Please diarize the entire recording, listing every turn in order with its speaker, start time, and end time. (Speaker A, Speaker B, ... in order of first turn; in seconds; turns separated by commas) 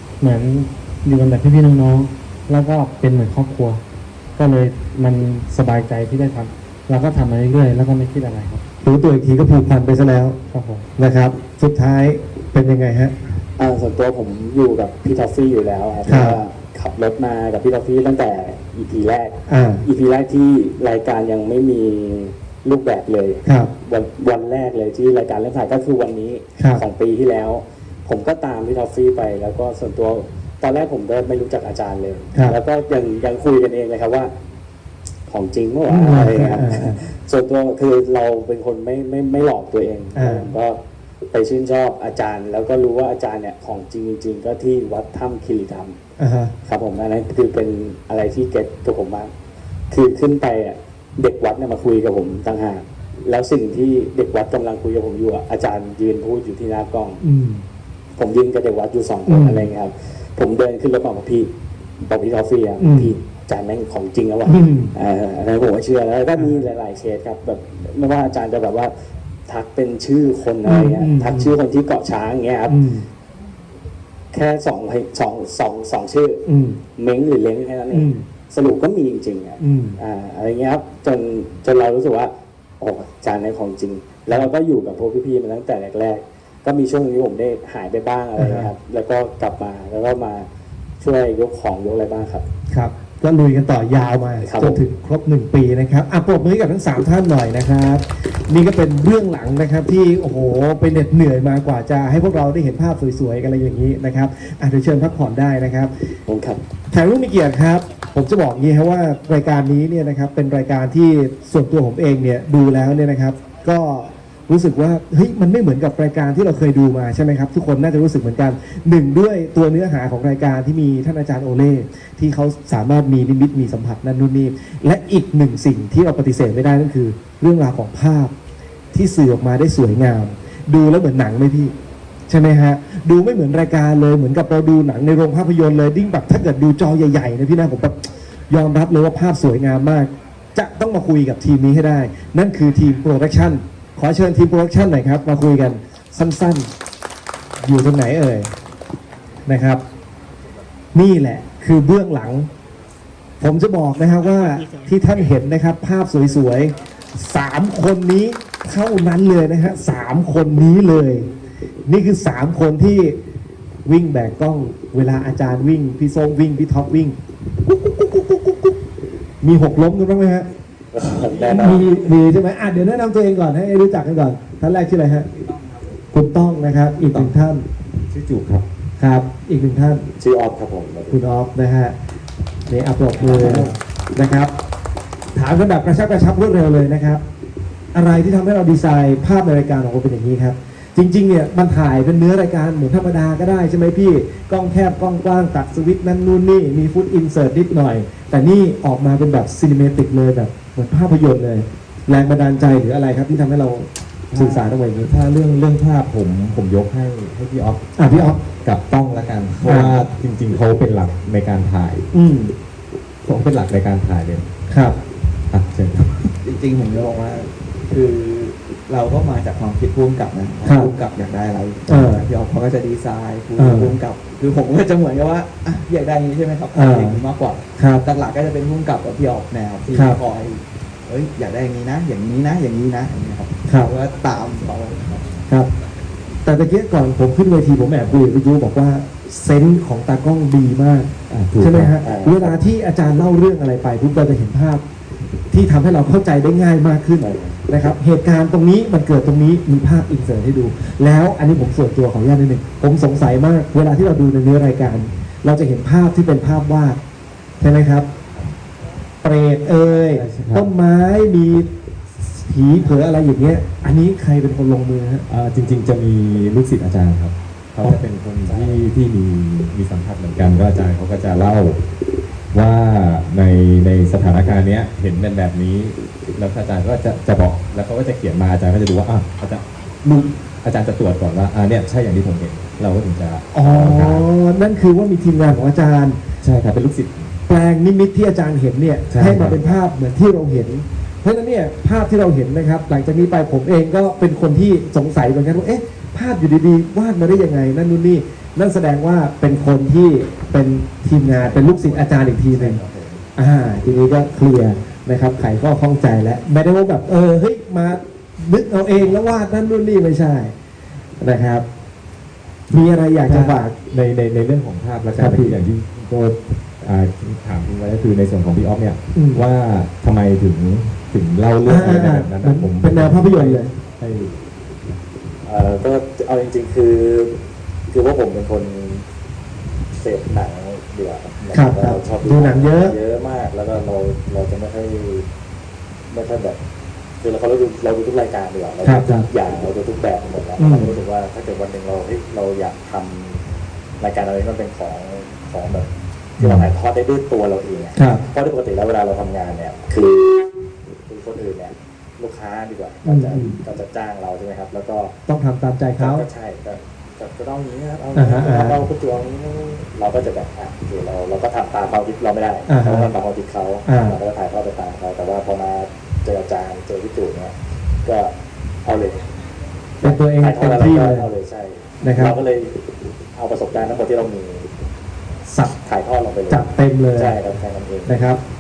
Speaker A: 0.2-3.8, Speaker A: 4.3-8.6, Speaker B: 8.8-10.4, Speaker A: 10.5-10.9, Speaker B: 11.0-13.1, Speaker C: 13.6-34.3, Speaker B: 16.1-16.4, Speaker B: 19.5-19.8, Speaker B: 23.4-23.7, Speaker B: 26.6-26.8, Speaker C: 35.3-40.8, Speaker B: 35.9-37.0, Speaker B: 40.1-40.5, Speaker C: 41.3-46.0, Speaker B: 46.2-46.5, Speaker C: 46.6-49.3, Speaker C: 49.9-57.2, Speaker B: 57.2-57.6, Speaker C: 58.2-61.5, Speaker B: 59.2-59.7, Speaker C: 62.0-68.9, Speaker B: 62.8-63.1, Speaker B: 64.4-64.9, Speaker B: 66.3-66.6, Speaker C: 69.5-72.8, Speaker B: 70.6-71.5, Speaker B: 72.7-73.1, Speaker C: 74.3-76.4, Speaker B: 76.5-76.8, Speaker C: 77.0-90.5, Speaker B: 77.9-78.2, Speaker B: 79.6-80.0, Speaker B: 88.4-88.7, Speaker C: 91.0-92.4, Speaker B: 92.7-105.9, Speaker C: 94.4-94.8, Speaker C: 106.3-106.6, Speaker B: 106.9-128.3, Speaker B: 128.9-131.7, Speaker B: 132.3-146.7, Speaker B: 147.6-148.5, Speaker B: 149.4-149.8, Speaker B: 150.9-152.5, Speaker B: 153.4-161.3, Speaker B: 161.8-163.2, Speaker B: 163.8-168.7, Speaker B: 169.4-170.5, Speaker C: 170.9-171.9, Speaker B: 171.4-175.3, Speaker B: 176.1-177.6, Speaker D: 178.1-178.6, Speaker B: 179.0-180.1, Speaker C: 180.2-181.2, Speaker B: 181.1-181.9, Speaker B: 182.7-184.5, Speaker D: 183.2-183.7, Speaker B: 185.3-187.2, Speaker B: 187.9-205.1, Speaker D: 204.3-212.1, Speaker B: 208.0-208.4, Speaker B: 209.6-210.1, Speaker B: 212.1-212.5, Speaker D: 213.2-214.5, Speaker B: 214.7-215.0, Speaker D: 215.5-216.3, Speaker E: 216.4-235.4, Speaker B: 220.6-220.9, Speaker B: 221.9-222.2, Speaker B: 223.6-223.9, Speaker B: 226.7-227.2, Speaker B: 227.8-228.1, Speaker B: 229.9-230.2, Speaker B: 233.7-233.9, Speaker B: 236.4-244.8, Speaker D: 241.3-242.0, Speaker C: 242.0-242.6, Speaker B: 245.5-257.0, Speaker C: 247.2-247.6, Speaker B: 257.6-258.1, Speaker B: 259.2-261.7, Speaker D: 260.1-260.7, Speaker B: 262.2-265.2, Speaker D: 265.3-271.8, Speaker C: 268.4-268.8, Speaker D: 272.5-284.3, Speaker B: 283.5-286.2, Speaker D: 286.4-287.4, Speaker B: 287.5-302.8, Speaker D: 289.1-289.6, Speaker D: 301.2-303.2, Speaker B: 303.4-310.5, Speaker B: 311.2-311.6, Speaker B: 312.7-313.8, Speaker D: 313.2-324.4, Speaker B: 315.1-315.6, Speaker B: 319.1-319.4, Speaker B: 321.6-323.7, Speaker C: 325.4-327.4, Speaker C: 327.9-329.0, Speaker C: 329.9-335.3, Speaker B: 331.5-333.0, Speaker C: 336.1-336.6, Speaker C: 337.2-343.4, Speaker B: 338.8-339.3, Speaker B: 340.6-341.0, Speaker C: 344.0-350.4, Speaker B: 347.9-348.2, Speaker C: 351.1-355.1, Speaker B: 353.0-353.6, Speaker B: 355.3-356.3, Speaker C: 356.0-369.3, Speaker B: 358.1-358.8, Speaker B: 362.7-363.1, Speaker B: 363.9-364.2, Speaker C: 370.0-372.8, Speaker B: 370.0-371.3, Speaker B: 372.0-372.4, Speaker C: 373.3-374.7, Speaker B: 375.5-375.7, Speaker C: 375.8-378.2, Speaker B: 376.5-377.4, Speaker B: 378.1-378.4